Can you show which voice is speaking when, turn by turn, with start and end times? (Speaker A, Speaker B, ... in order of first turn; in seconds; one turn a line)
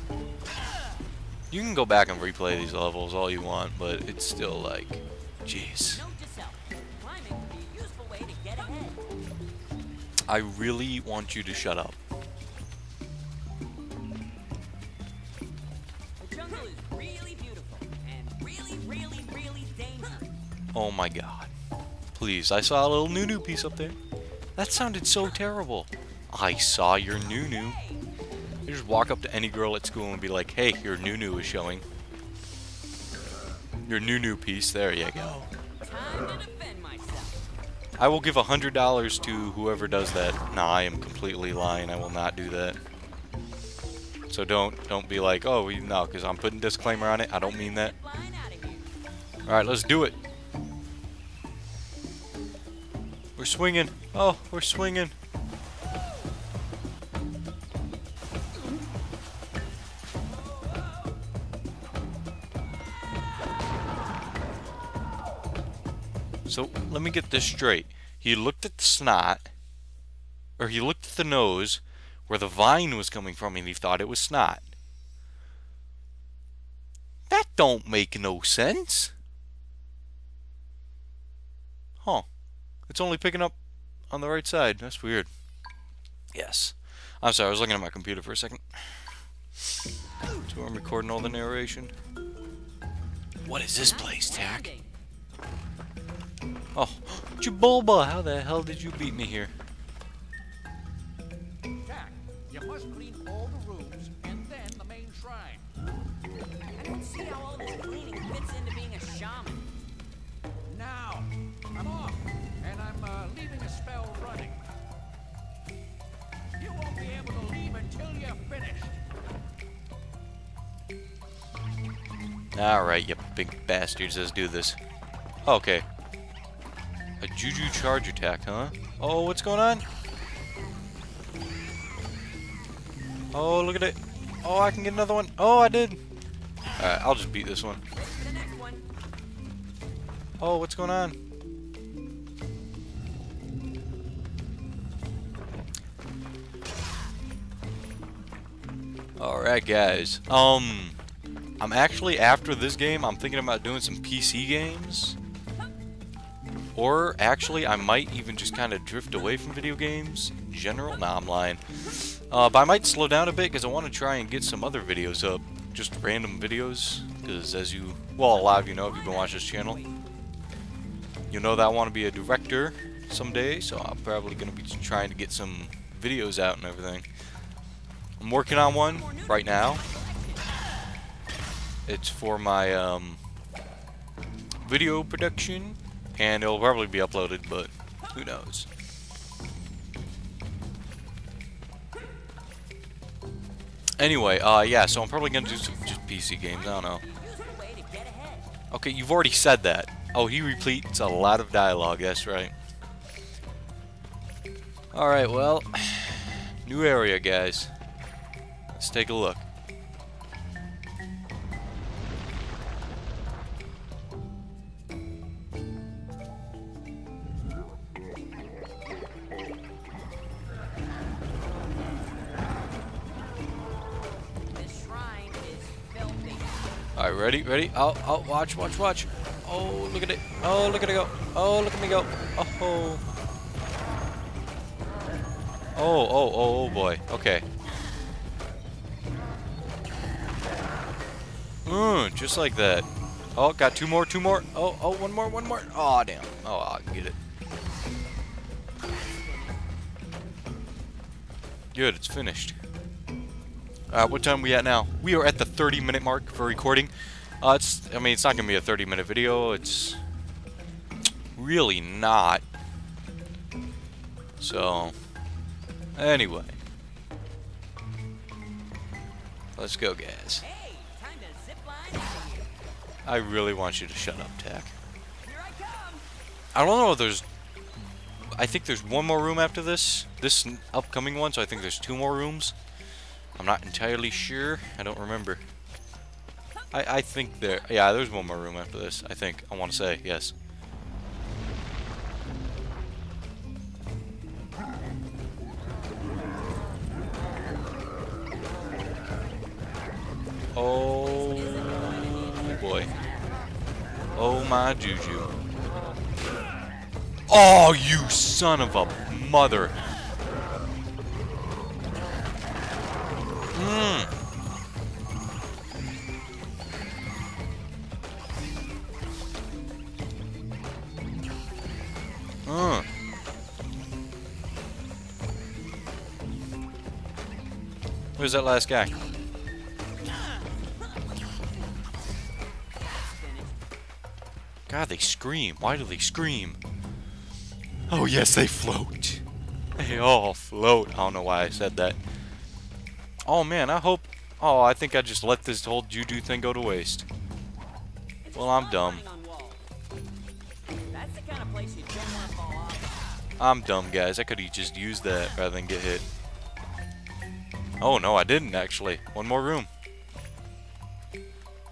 Speaker A: 1.5-6.0
Speaker B: 5.9-9.0
Speaker A: 10.3-12.0
Speaker B: 16.2-20.4
Speaker A: 20.7-21.5
Speaker A: 22.1-24.0
Speaker A: 24.6-27.8
Speaker B: 27.2-28.1
Speaker A: 28.6-31.8
Speaker A: 33.9-35.5
Speaker B: 35.8-37.5
Speaker A: 38.0-42.8
Speaker A: 44.3-47.9
Speaker B: 46.8-48.9
Speaker A: 49.5-50.1
Speaker A: 53.4-55.1
Speaker A: 66.5-69.5
Speaker A: 70.6-74.7
Speaker A: 77.3-79.1
Speaker A: 82.0-82.2
Speaker A: 82.9-83.5
Speaker A: 84.1-85.3
Speaker A: 86.3-88.6
Speaker A: 90.4-91.9
Speaker A: 93.4-94.7
Speaker B: 93.8-94.9
Speaker A: 96.7-99.5
Speaker C: 101.8-105.6
Speaker B: 106.7-109.7
Speaker C: 110.7-114.6
Speaker C: 116.6-119.0
Speaker A: 122.5-124.8
Speaker A: 125.4-125.8
Speaker A: 127.2-129.8
Speaker A: 133.3-136.0
Speaker A: 136.8-137.8
Speaker B: 137.9-138.8
Speaker A: 140.4-141.2
Speaker A: 149.2-151.0
Speaker A: 151.6-155.2
Speaker A: 156.7-169.8
Speaker B: 168.3-170.0
Speaker A: 171.3-177.1
Speaker A: 178.2-179.8
Speaker B: 178.6-180.5
Speaker A: 181.8-183.2
Speaker A: 184.6-188.7
Speaker A: 194.0-197.0
Speaker B: 195.3-198.5
Speaker A: 198.7-202.5
Speaker A: 204.9-207.7
Speaker A: 208.7-209.4
Speaker B: 224.5-226.7
Speaker A: 226.9-233.0
Speaker A: 235.7-237.4
Speaker A: 241.6-247.2
Speaker B: 249.1-249.6
Speaker A: 251.7-252.6
Speaker A: 253.9-260.0
Speaker A: 261.4-262.4
Speaker A: 264.4-264.9
Speaker A: 265.9-266.6
Speaker A: 269.6-270.4
Speaker B: 270.4-272.6
Speaker A: 273.0-274.7
Speaker B: 275.2-276.1
Speaker A: 276.5-277.2
Speaker A: 278.4-282.5
Speaker A: 283.4-285.4
Speaker A: 286.7-290.3
Speaker A: 300.5-302.9
Speaker B: 301.0-303.3
Speaker A: 304.1-305.3
Speaker A: 307.3-309.8
Speaker A: 313.5-314.1
Speaker A: 322.4-322.9
Speaker A: 328.2-328.9
Speaker B: 332.8-333.6
Speaker A: 334.7-336.6
Speaker A: 337.9-339.2
Speaker A: 339.8-342.0
Speaker A: 343.2-347.1
Speaker B: 348.2-349.6
Speaker A: 348.3-349.0
Speaker B: 350.9-353.2
Speaker A: 353.4-356.1
Speaker A: 357.8-359.7